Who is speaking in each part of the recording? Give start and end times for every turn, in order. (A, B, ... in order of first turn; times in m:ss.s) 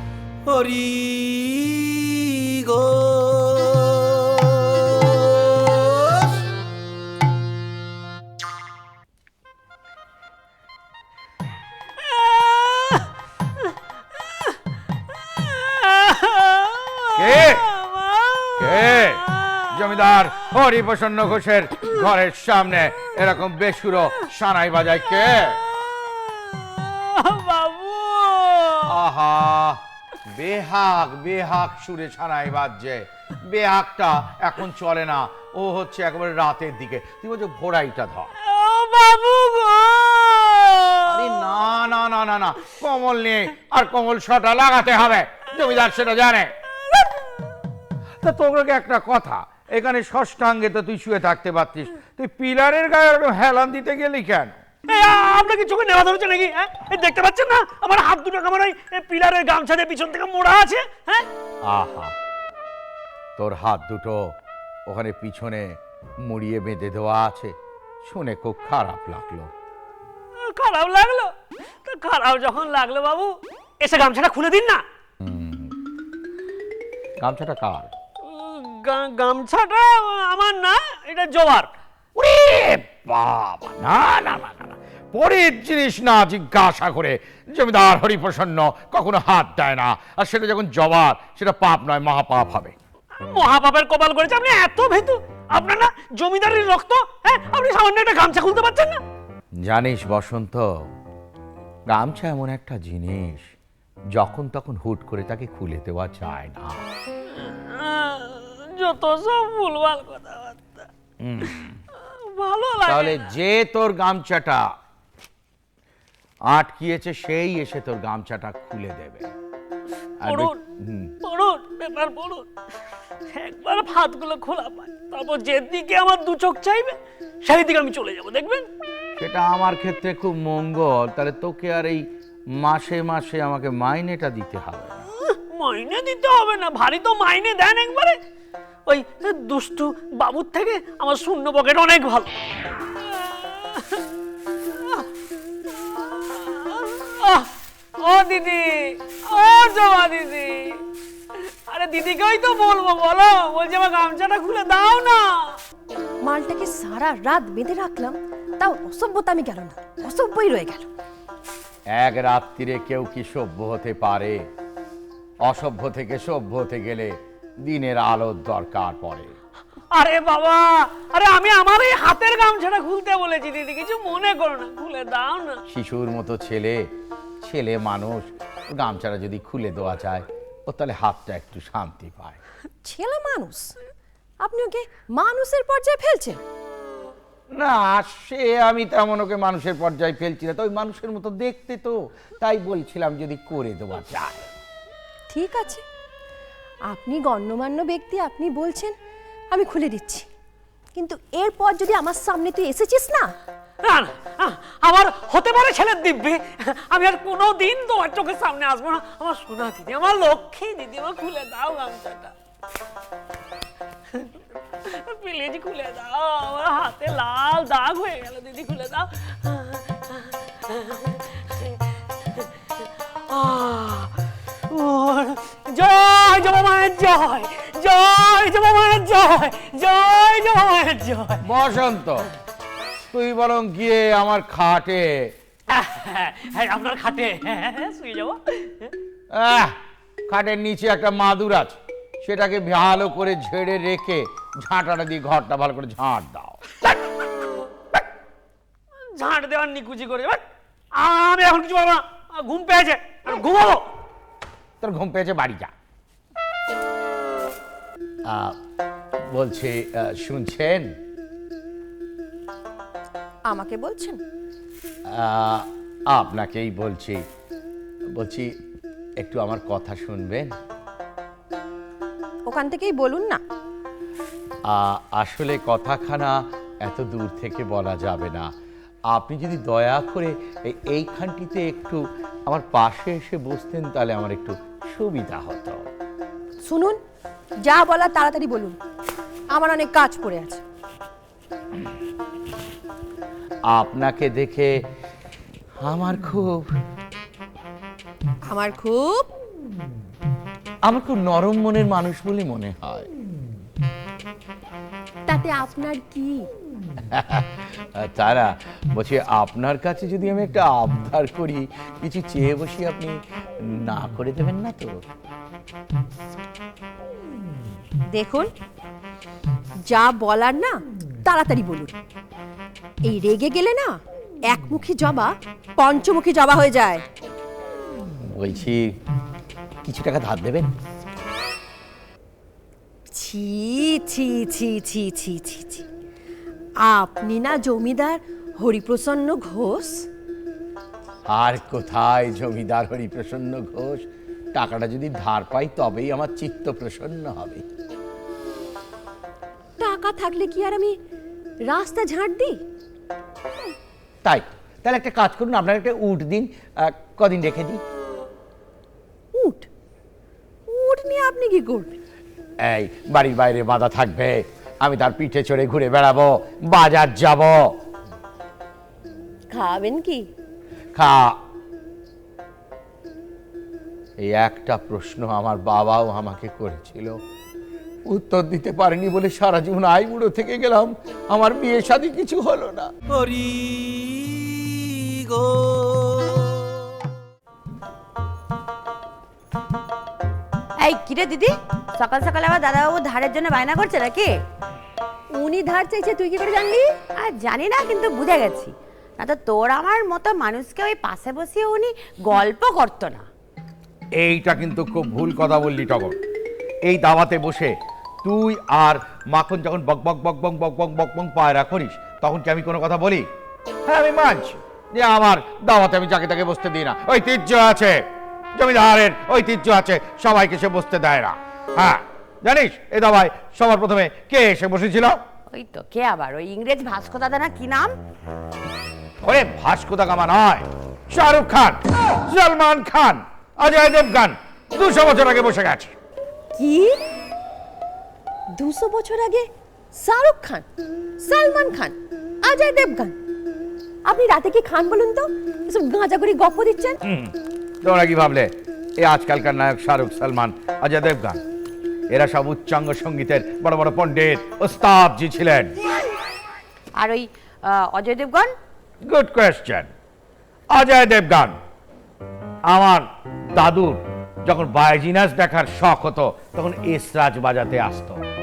0:00.5-0:06.5 A
0:12.0-0:13.1 B
0:14.2-0:14.6 B
0:15.1-0:19.7 B
0:17.2-0:17.7 C
0:18.6-0:25.6 C
0:25.7-0:28.9 B
0:28.9-0:38.3 C
0:38.4-0:41.3 B
0:41.1-0:46.5 C
0:46.9-0:47.4 B
0:48.2-0:54.6 C
0:54.9-1:01.3 B
1:01.6-1:02.2 C
1:03.4-1:09.5 C
1:10.4-1:11.3 B
1:11.8-1:14.8 B
1:15.2-1:15.7 C
1:17.2-1:17.9 C
1:18.2-1:21.7 B
1:22.2-1:32.8 C
1:33.2-1:39.0 B
1:39.6-1:40.7 C
1:41.9-1:43.5 C
1:44.1-1:46.8 C
1:47.3-1:50.9 B
1:51.2-1:51.8 C
1:52.0-1:53.3 B
1:52.9-1:54.7 C
1:56.5-1:59.3 C
2:00.2-2:01.1 C
2:00.2-2:00.6 B
2:01.2-2:02.5 B
2:03.3-2:08.7 B
2:09.2-2:15.0 C
2:15.3-2:18.2 B
2:18.9-2:22.3 B
2:23.0-2:24.0 B
2:24.7-2:25.1 B
2:25.7-2:30.8 B
2:31.4-2:35.6 B
2:36.2-2:40.9 D
2:41.9-2:44.4 C
2:45.4-2:49.4 C
2:49.9-2:55.6 B
2:55.7-2:56.9 C
2:57.4-3:02.4 C
3:02.8-3:03.8 D
3:04.4-3:06.4 D
3:07.5-3:14.5 C
3:15.3-3:15.8 D
3:16.9-3:19.0 D
3:19.5-3:20.3 D
3:21.0-3:23.3 D
3:23.8-3:32.3 B
3:34.8-3:41.8 B
3:43.3-3:44.2 B
3:44.7-3:51.4 B
3:51.4-3:52.3 C
3:53.0-3:55.3 C
3:55.7-3:58.9 B
3:59.3-4:07.0 C
4:09.1-4:10.4 B
4:11.0-4:13.9 B
4:14.8-4:15.7 C
4:18.3-4:18.6 C
4:19.3-4:20.9 C
4:23.5-4:24.2 D
4:25.1-4:27.2 C
4:28.1-4:28.6 C
4:29.2-4:30.5 C
4:32.5-4:33.4 D
4:34.7-4:38.5 C
4:39.1-4:45.8 C
4:46.6-4:47.0 D
4:47.6-4:48.8 D
4:49.5-4:50.6 D
4:53.7-4:54.7 C
4:55.8-4:56.7 C
4:58.5-4:59.3 D
5:00.8-5:03.1 C
5:05.3-5:06.5 D
5:07.1-5:15.0 C
5:18.1-5:18.5 D
5:19.9-5:21.9 D
5:23.1-5:27.0 D
5:28.2-5:28.9 C
5:29.8-5:30.7 C
5:33.1-5:35.9 D
5:36.8-5:40.1 D
5:41.3-5:47.6 C
5:49.8-5:51.0 D
5:51.6-5:52.6 D
5:54.2-5:57.8 C
5:59.3-5:59.7 D
6:00.7-6:02.0 D
6:02.6-6:07.8 C
6:09.5-6:10.3 D
6:11.0-6:11.4 C
6:14.2-6:17.2 C
6:18.1-6:22.9 C
6:23.1-6:26.6 A
6:30.8-6:34.4 E
6:35.3-6:36.9 D
6:37.2-6:43.3 E
6:44.2-6:46.2 C
6:46.8-6:53.3 C
6:53.8-6:58.0 C
6:58.6-7:05.2 C
7:05.5-7:08.0 E
7:09.2-7:16.0 C
7:16.6-7:17.0 D
7:18.5-7:20.7 D
7:21.2-7:23.2 D
7:24.1-7:27.0 D
7:27.0-7:31.4 C
7:32.1-7:35.8 C
7:37.0-7:38.5 E
7:39.0-7:39.9 C
7:40.7-7:41.6 C
7:42.7-7:48.2 C